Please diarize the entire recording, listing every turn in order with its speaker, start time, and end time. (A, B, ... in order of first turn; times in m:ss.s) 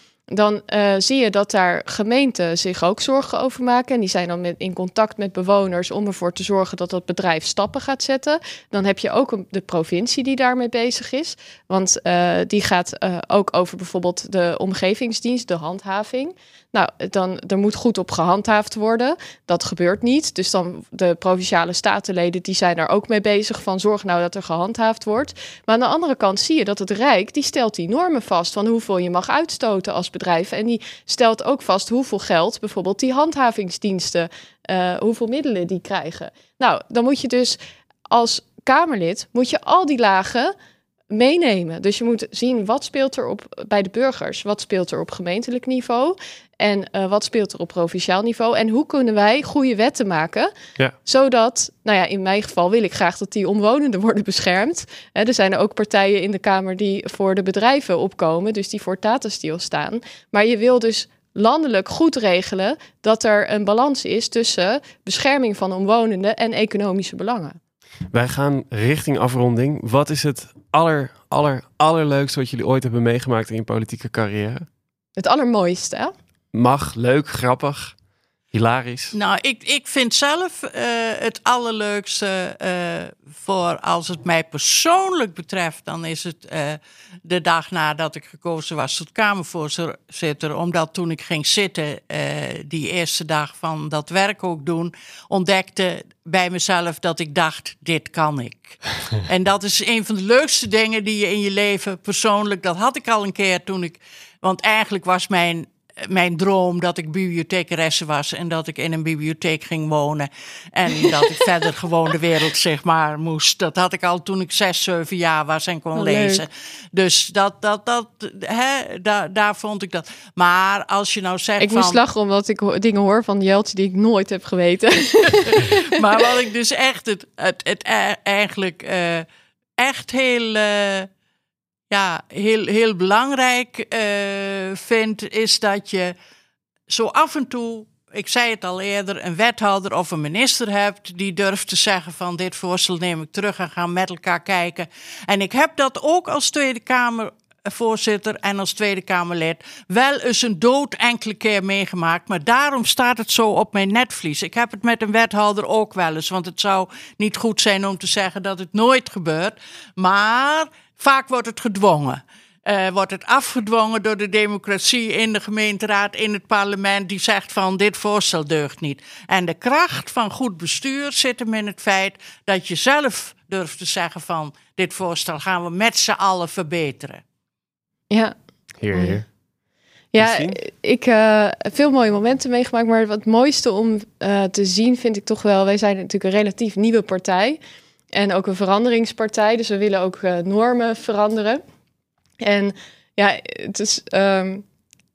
0:00.3-0:40.6 A
0:41.1-0:50.5 A
0:51.0-1:07.6 A
1:08.1-1:14.7 B
1:15.2-1:16.1 A
1:16.5-1:18.0 B
1:18.5-1:19.1 B
1:19.1-2:02.0 C
1:56.0-1:56.4 A
2:01.6-2:05.9 A
2:05.5-2:09.3 C
2:09.8-2:11.1 C
2:11.9-2:16.1 C
2:16.9-2:57.2 C
2:58.8-2:59.3 B
2:58.9-2:59.2 A
3:00.1-3:07.6 A
3:00.2-3:00.6 B
3:08.1-3:11.6 A
3:12.4-3:14.6 A